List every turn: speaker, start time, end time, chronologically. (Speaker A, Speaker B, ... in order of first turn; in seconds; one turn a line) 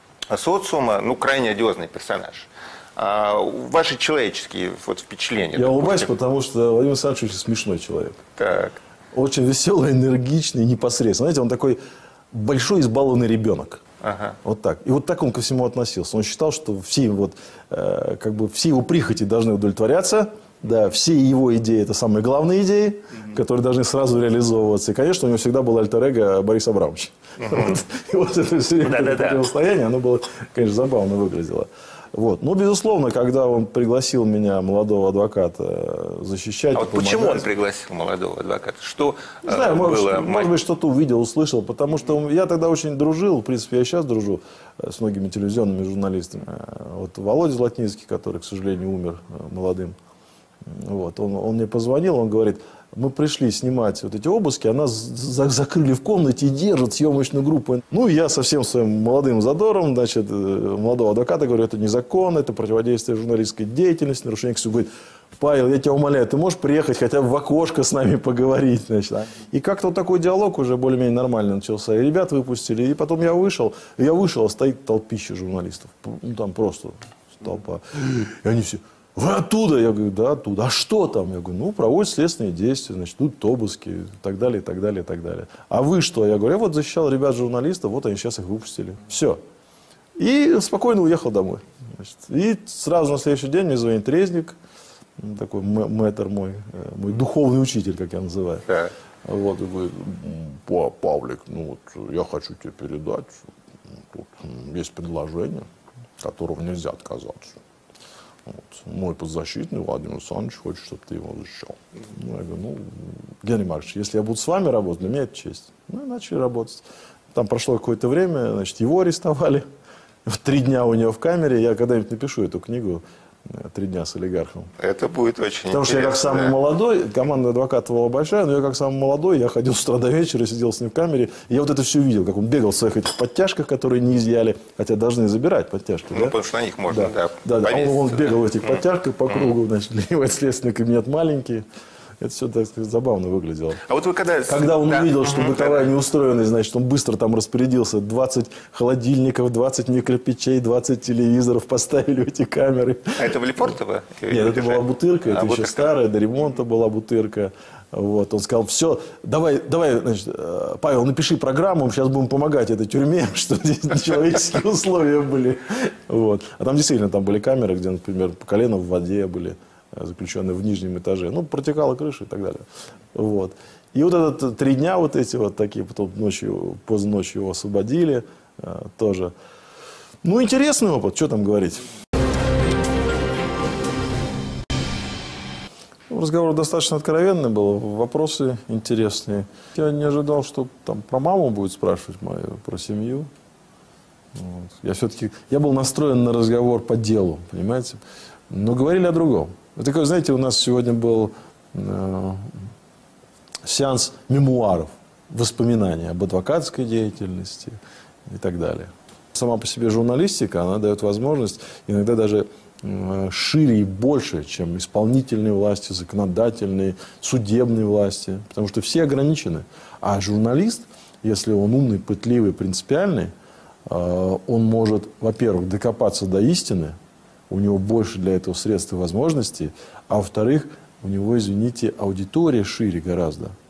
Speaker A: 0.3-6.1
Speaker B: 5.5-8.2
Speaker A: 8.4-8.8
Speaker B: 9.1-11.8
Speaker B: 12.3-13.8
Speaker A: 14.0-14.4
Speaker B: 14.4-37.5
Speaker A: 27.4-27.8
Speaker A: 28.8-29.4
Speaker A: 36.7-40.5
Speaker B: 39.5-50.0
Speaker B: 50.7-89.4
Speaker B: 90.2-94.6
Speaker B: 95.2-98.7
Speaker A: 98.7-98.9
Speaker B: 99.2-103.4
Speaker B: 104.1-105.7
Speaker B: 106.2-107.6
Speaker B: 108.5-119.7
Speaker B: 120.3-124.7
Speaker A: 124.8-126.6
Speaker B: 125.7-136.3
Speaker A: 136.1-139.6
Speaker B: 136.9-141.6
Speaker B: 142.2-143.8
Speaker A: 143.8-145.9
Speaker B: 144.5-153.2
Speaker A: 153.2-155.9
Speaker B: 154.3-179.3
Speaker B: 180.2-181.9
Speaker B: 186.1-193.3
Speaker B: 194.3-202.5
Speaker B: 203.6-223.3
Speaker B: 223.9-227.0
Speaker B: 227.5-233.5